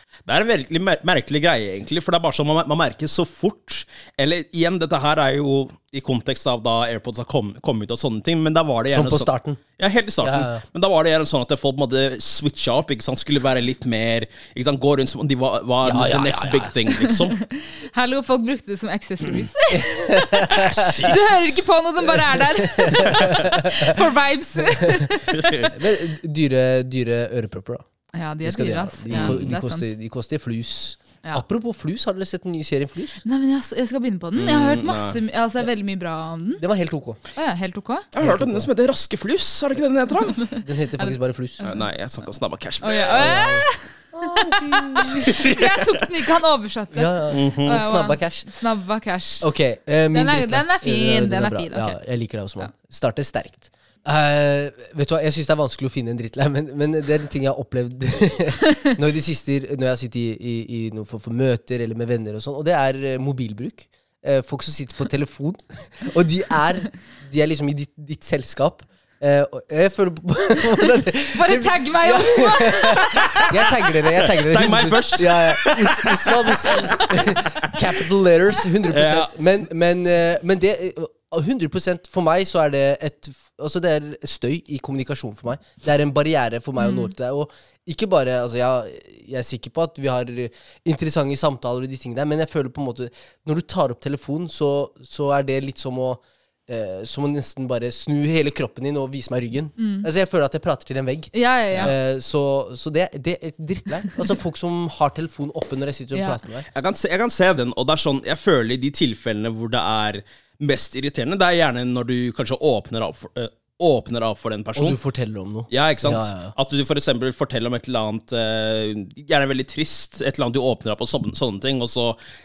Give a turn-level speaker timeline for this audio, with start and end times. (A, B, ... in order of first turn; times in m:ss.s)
0:00.2-0:17.4 A
0:08.9-0:09.6 B
0:10.2-0:10.6 B
0:15.8-0:16.7 B
0:16.9-0:25.7 C
0:19.7-0:21.0 B
0:20.5-0:21.6 A
0:22.6-0:24.0 B
0:24.8-0:25.1 B
0:25.3-0:25.7 A
0:25.7-0:27.8 B
0:28.1-0:29.8 C
0:28.4-0:33.2 B
0:29.1-0:29.4 A
0:33.2-0:36.6 C
0:34.3-0:35.2 A
0:36.6-0:37.2 B
0:37.3-0:38.1 C
0:38.1-0:40.4 A
0:38.2-0:38.7 B
0:40.4-0:41.8 C
0:40.6-0:41.6 B
0:41.6-0:43.4 A
0:42.8-0:49.5 C
0:43.1-0:45.5 B
0:45.1-0:45.7 A
0:46.9-0:48.5 B
0:47.3-0:47.8 A
0:49.4-1:46.7 B
0:50.1-0:52.0 C
1:11.3-1:13.4 C
1:13.3-1:18.0 A
1:18.9-1:19.3 A
1:26.8-1:27.1 C
1:39.8-1:40.1 C
1:41.3-1:41.9 C
1:46.1-1:46.4 C
1:46.7-1:55.0 A
1:54.7-1:56.5 B
1:55.7-2:02.2 A